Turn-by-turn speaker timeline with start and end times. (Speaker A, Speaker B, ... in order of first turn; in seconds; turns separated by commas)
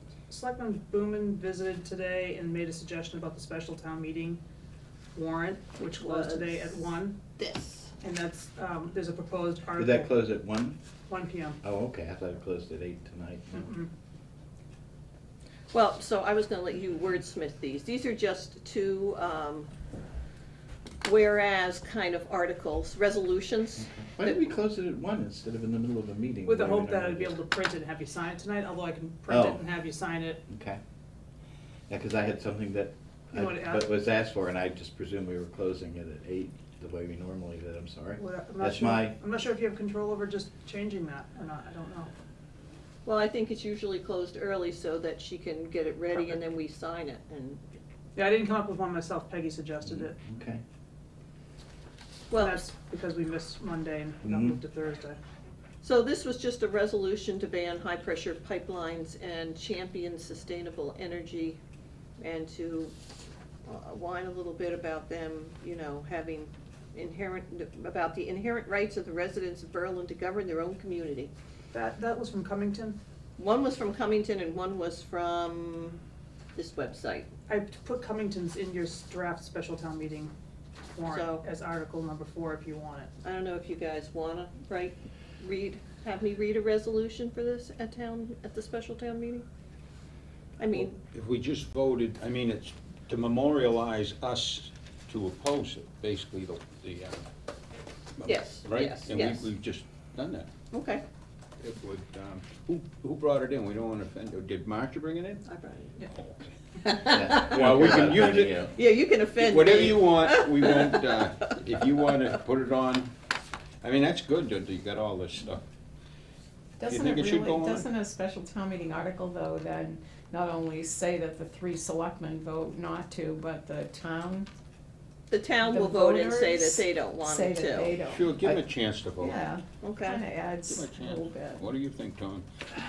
Speaker A: 0.3-4.4, Speaker A: 5.1-7.2, Speaker B: 5.8-6.8, Speaker B: 7.4-7.9, Speaker A: 8.0-10.1, Speaker C: 9.8-10.8, Speaker A: 11.1-11.6, Speaker C: 11.6-13.7, Speaker A: 13.6-13.9, Speaker B: 15.7-19.7, Speaker B: 21.0-24.4, Speaker C: 23.8-27.4, Speaker A: 26.4-30.4, Speaker C: 29.3-29.6, Speaker C: 30.5-30.8, Speaker C: 31.9-39.2, Speaker A: 33.3-33.9, Speaker A: 38.2-42.1, Speaker B: 43.0-47.6, Speaker A: 48.1-50.1, Speaker C: 49.8-50.6, Speaker B: 52.3-52.6, Speaker A: 52.3-55.2, Speaker C: 54.2-54.6, Speaker B: 55.8-61.6, Speaker B: 62.2-62.9, Speaker B: 63.6-71.3, Speaker A: 71.7-73.0, Speaker B: 73.4-76.0, Speaker B: 76.5-77.3, Speaker A: 77.5-80.3, Speaker A: 80.9-83.1, Speaker B: 81.0-81.4, Speaker B: 83.2-89.4, Speaker B: 90.6-90.9, Speaker D: 90.7-97.2, Speaker D: 98.2-100.5, Speaker B: 98.2-99.5, Speaker B: 100.7-101.0, Speaker D: 101.6-105.4, Speaker B: 105.5-106.0, Speaker D: 106.1-106.5, Speaker B: 106.8-107.5, Speaker C: 107.1-108.7, Speaker D: 107.4-108.6, Speaker B: 108.6-111.5, Speaker D: 109.4-113.1, Speaker D: 113.8-115.6, Speaker E: 116.8-124.5, Speaker D: 116.9-117.8, Speaker B: 125.3-128.0, Speaker E: 125.6-131.7, Speaker D: 128.1-129.4, Speaker B: 129.8-130.2, Speaker D: 130.6-132.4